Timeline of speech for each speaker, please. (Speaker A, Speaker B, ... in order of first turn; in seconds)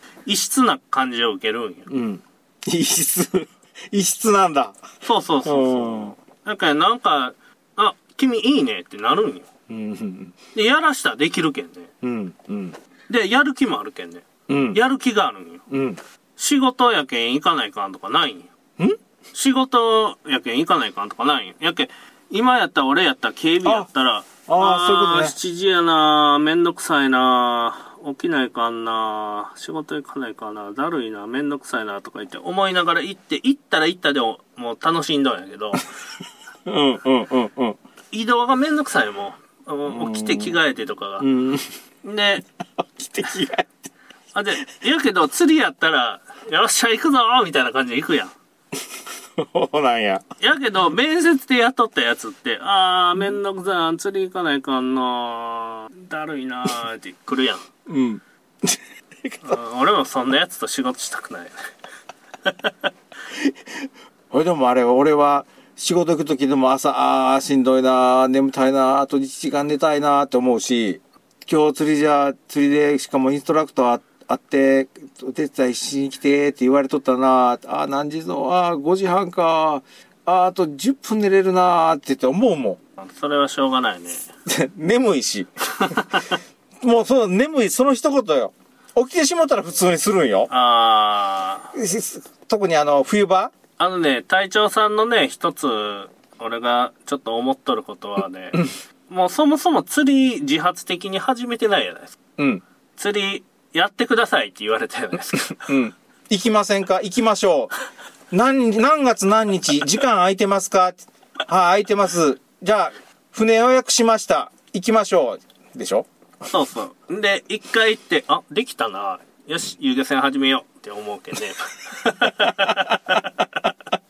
Speaker A: 0.2-1.9, 5.0-9.5, 10.5-11.9, 13.1-15.6, 16.4-18.5, 19.3-35.9, 38.1-41.3, 42.0-42.4, 44.3-48.3, 50.4-57.6, 59.4-61.5, 62.5-62.7, 83.0-84.2, 85.8-86.3, 90.5-91.7, 93.8-102.2, 103.0-105.7, 116.4-123.3
Speaker B: 1.9-4.8, 5.4-6.1, 9.7-10.3, 12.0-12.8, 14.5-14.8, 15.7-16.0, 24.4-25.4, 36.6-37.8, 39.9-40.5, 41.2-41.7, 43.0-43.7, 49.4-50.2, 57.9-59.6, 63.3-82.8, 84.5-86.2, 86.8-90.5, 91.7-93.5, 102.4-102.6, 105.6-107.7, 108.3-116.1, 122.2-123.5